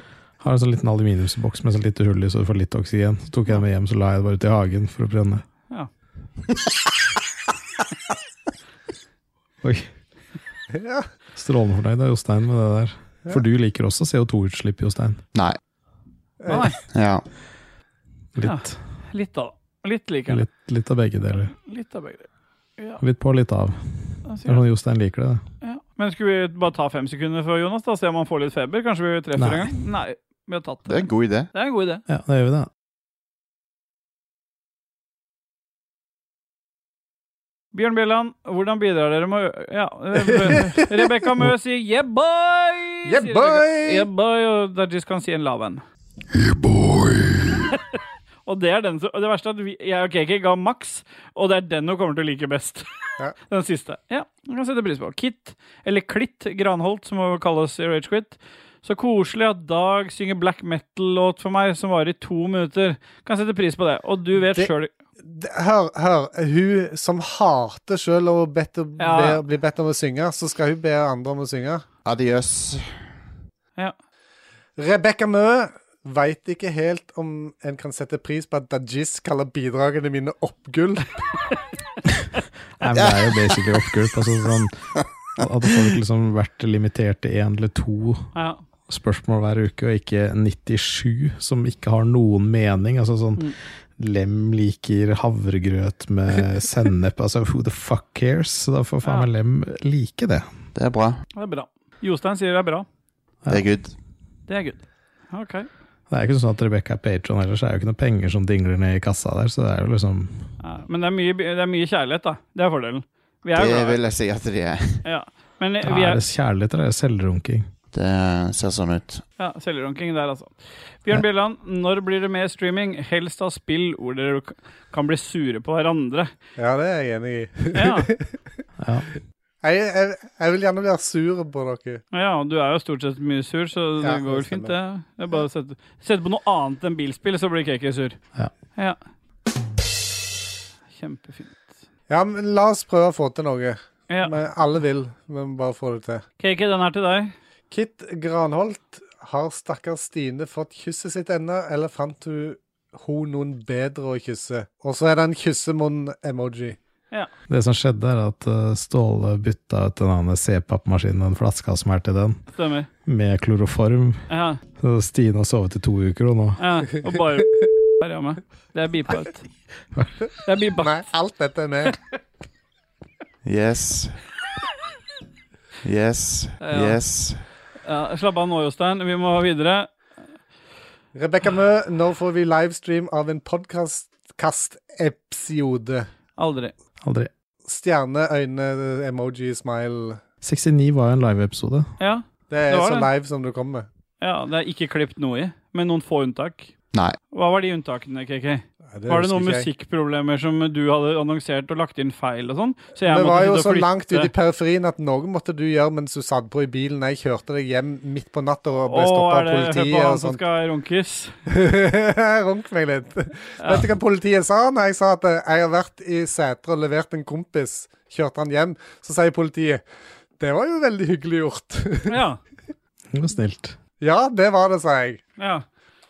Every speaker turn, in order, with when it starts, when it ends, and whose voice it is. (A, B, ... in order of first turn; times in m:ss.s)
0:00.4-0:05.4 A
0:09.6-0:09.9 A
0:10.8-0:11.1 B
0:11.3-0:15.2 A
0:16.4-0:16.7 B
0:16.5-0:16.8 C
0:16.9-0:17.2 D
0:18.3-0:18.8 A
0:18.4-0:20.4 C
0:20.3-0:21.5 A
0:21.6-0:23.0 C
0:23.0-0:23.8 A
0:24.2-0:24.6 C
0:24.4-0:25.4 A
0:25.6-0:32.0 C
0:29.4-0:29.7 A
0:30.9-0:31.5 D
0:32.1-0:32.7 A
0:37.7-0:45.8 C
0:43.0-0:44.1 B
0:48.4-0:52.8 C
0:53.4-1:04.9 C
1:04.4-1:04.7 B
1:05.2-1:11.8 B
1:09.0-1:09.4 C
1:12.0-1:12.9 D
1:14.8-1:21.3 B
1:22.8-1:28.3 A
1:28.3-1:28.6 C
1:28.9-1:40.5 A
1:40.7-1:41.2 D
1:41.4-1:42.8 C
1:43.5-1:43.9 D
1:44.5-1:45.7 C
1:46.1-1:50.3 A
1:50.6-1:54.0 C
1:53.5-1:55.0 D
1:55.0-1:56.2 C
1:55.8-1:57.7 A
1:57.9-1:59.2 D
1:59.4-2:06.3 C
2:06.6-2:08.4 B
2:07.7-2:08.1 C
2:08.8-2:09.1 A
2:09.6-2:12.0 B
2:12.1-2:18.2 C
2:14.0-2:14.8 B
2:21.0-2:21.5 C
2:22.1-2:26.2 B
2:24.1-2:24.4 C
2:26.4-2:27.3 C
2:27.7-2:36.8 B
2:37.5-2:42.4 A
2:42.6-2:42.9 C
2:43.0-2:44.2 A
2:44.3-2:44.6 C
2:44.8-2:46.6 A
2:46.6-2:49.4 C
2:49.9-2:50.2 A
2:50.4-2:51.0 C
2:50.8-2:51.9 B
2:53.4-2:54.2 D
2:55.8-2:57.4 D
2:56.6-2:57.0 C
2:57.8-2:59.9 C
3:01.1-3:06.1 B
3:06.4-3:06.7 C
3:07.0-3:07.3 A
3:07.6-3:10.2 B
3:10.4-3:11.9 A
3:12.0-3:13.1 C
3:12.5-3:13.9 B
3:14.2-3:16.7 C
3:17.3-3:24.3 C
3:18.9-3:19.7 B
3:23.0-3:30.4 B
3:28.9-3:31.3 C
3:31.5-3:39.8 B
3:33.6-3:33.8 C
3:40.4-3:42.2 B
3:42.1-3:42.4 C
3:43.1-3:43.8 A
3:44.0-3:45.2 B
3:45.4-3:45.6 C